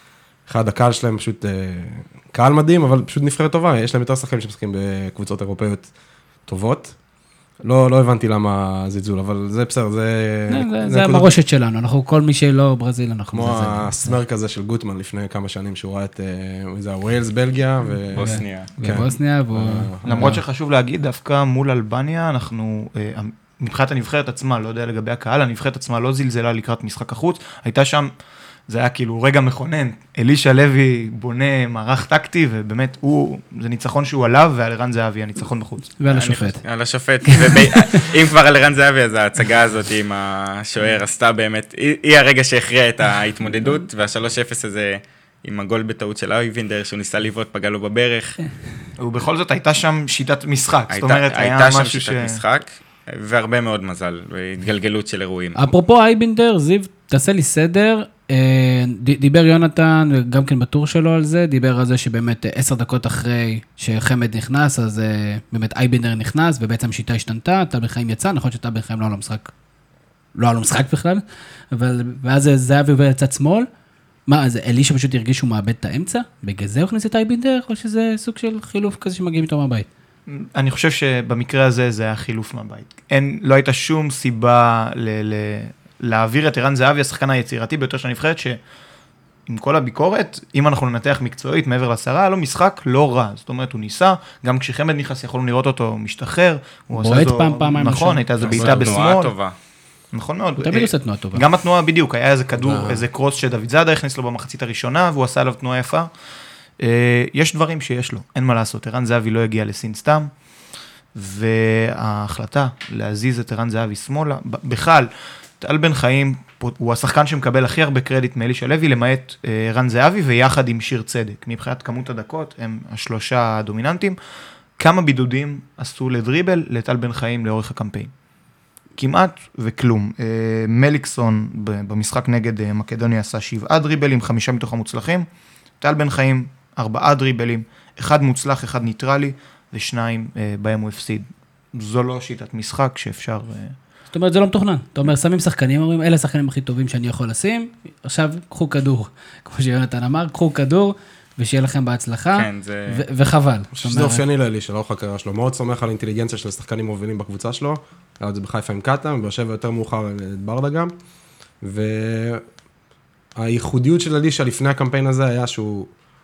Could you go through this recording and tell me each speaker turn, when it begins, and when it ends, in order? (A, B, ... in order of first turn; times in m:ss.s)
0:00.5-0:05.9 A
0:06.5-0:07.0 A
0:07.6-0:11.4 A
0:10.5-0:14.2 B
0:13.3-0:20.3 A
0:18.1-0:18.7 C
0:18.2-0:20.4 B
0:20.0-0:28.1 D
0:28.7-0:35.9 D
0:36.0-0:36.6 B
0:36.1-0:48.4 C
0:37.3-0:38.0 B
0:49.0-0:52.4 D
0:50.9-0:55.8 C
0:55.6-1:09.5 B
1:10.4-1:13.7 B
1:14.3-1:19.9 B
1:20.3-1:28.6 D
1:29.5-1:39.3 D
1:36.9-1:38.2 B
1:38.4-1:39.6 C
1:38.5-1:39.1 A
1:40.1-1:46.1 D
1:40.6-1:41.4 B
1:42.6-1:43.0 A
1:46.8-1:50.3 D
1:51.2-2:04.2 D
2:04.8-2:08.1 D
2:09.0-2:15.3 D
2:15.8-2:23.8 D
2:24.1-2:34.2 B
2:32.4-2:33.0 C
2:33.8-2:40.9 A
2:41.6-2:42.4 A
2:43.4-2:45.9 A